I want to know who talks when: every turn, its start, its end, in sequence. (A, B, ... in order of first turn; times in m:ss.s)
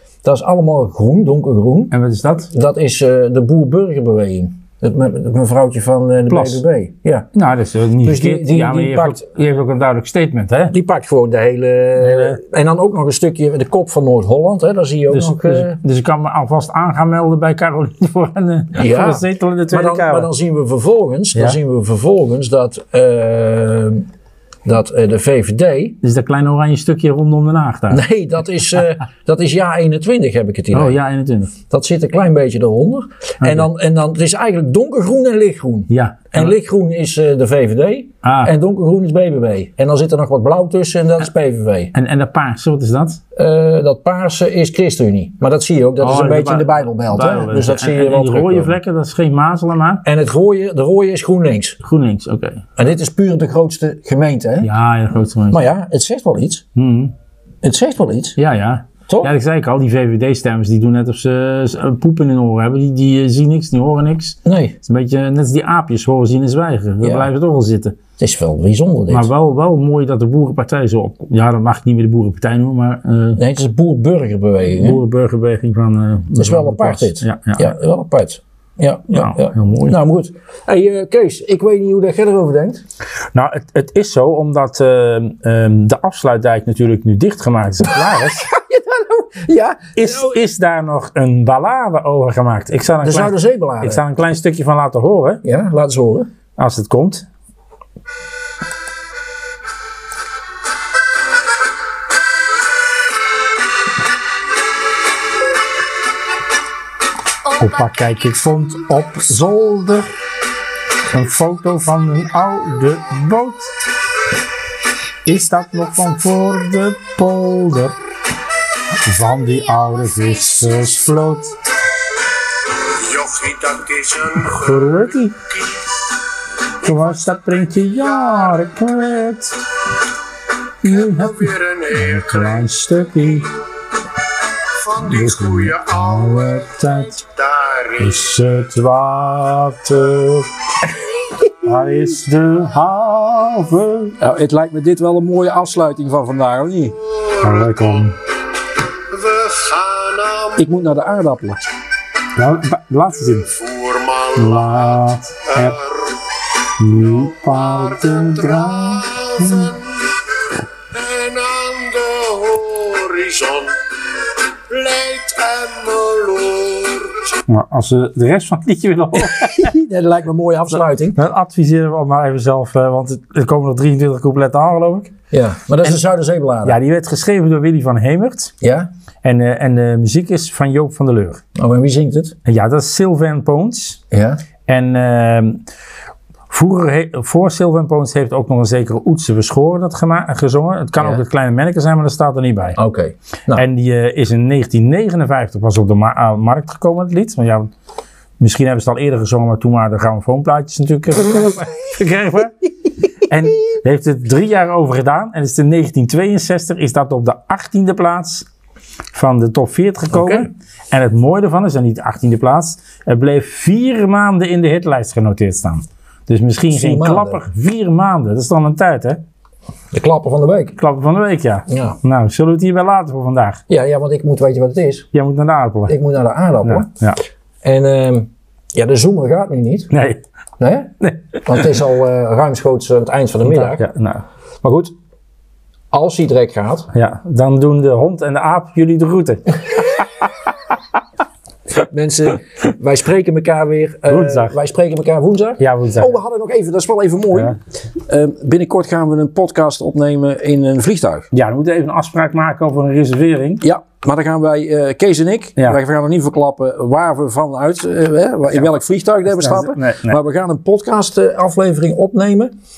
0:00.2-0:01.9 A
0:01.9-0:02.5 B
0:02.5-0:07.3 A
0:06.3-0:06.6 B
0:07.3-0:10.8 B
0:08.0-0:09.2 A
0:10.7-0:15.8 A
0:12.0-0:12.4 B
0:15.1-0:20.3 B
0:18.8-0:24.0 A
0:24.6-0:26.0 A
0:26.0-0:28.0 B
0:27.9-0:31.0 A
0:30.7-0:31.5 B
0:31.7-0:41.9 A
0:33.4-0:33.7 B
0:35.9-0:36.5 B
0:38.2-0:38.5 B
0:41.9-0:43.2 B
0:43.4-0:48.8 A
0:46.0-0:50.0 B
0:50.0-0:51.8 A
0:51.8-0:52.6 B
0:52.8-0:54.7 A
0:54.6-0:55.6 B
0:55.5-0:56.6 A
0:56.8-0:57.1 B
0:57.6-0:58.4 A
0:58.4-1:08.0 B
1:04.5-1:04.8 A
1:07.0-1:07.3 A
1:08.2-1:09.3 A
1:09.1-1:13.4 B
1:13.4-1:15.0 A
1:14.7-1:17.7 B
1:16.4-1:22.8 A
1:19.1-1:20.0 B
1:23.3-1:28.5 B
1:28.1-1:30.3 A
1:30.0-1:35.4 B
1:33.0-1:34.0 A
1:35.4-1:36.3 A
1:36.6-1:37.3 B
1:47.6-1:50.1 B
1:51.1-1:53.7 B
1:55.3-1:58.0 B
1:59.0-2:01.6 B
2:03.1-2:04.2 C
2:04.2-2:05.4 B
2:06.8-2:09.6 B
2:10.8-2:13.6 B
2:14.9-2:17.3 B
2:17.9-2:20.5 B
2:21.6-2:24.2 B
2:24.2-2:27.0 A
2:27.3-2:28.2 B
2:29.4-2:30.5 C
2:30.6-2:31.6 A
2:32.4-2:33.6 B
2:33.8-2:34.2 C
2:34.3-2:36.0 B
2:36.8-2:39.9 B
2:41.0-2:43.8 C
2:44.7-2:47.0 C
2:47.5-2:49.7 B
2:49.2-2:51.2 A
2:51.2-2:55.1 B
2:55.3-2:56.8 A
2:56.6-2:58.5 B
2:58.6-2:58.9 A
2:59.2-3:01.4 B
3:01.6-3:02.4 A
3:02.4-3:04.0 B
3:04.1-3:04.4 A
3:04.7-3:05.6 B
3:06.5-3:12.8 B
3:12.8-3:13.6 A
3:13.5-3:17.7 B
3:18.4-3:22.5 B
3:23.2-3:28.5 B
3:29.1-3:39.2 B
3:30.1-3:30.4 A
3:36.7-3:37.4 A
3:39.9-3:40.8 A
3:40.8-3:43.6 B
3:41.7-3:42.0 A
3:43.7-3:45.1 A
3:45.1-3:46.0 B
3:45.9-3:46.9 A
3:46.6-3:47.2 B
3:47.6-3:49.9 A
3:49.9-3:50.2 B
3:50.6-3:50.9 A
3:51.0-3:51.7 B
3:51.4-3:53.8 A
3:53.4-3:54.2 B
3:54.6-3:54.9 A
3:55.9-3:56.9 A
3:56.9-4:00.3 B
4:01.7-4:11.3 A
4:04.1-4:04.6 B
4:05.6-4:06.2 B
4:11.3-4:13.6 B
4:13.6-4:22.5 A
4:18.6-4:20.2 B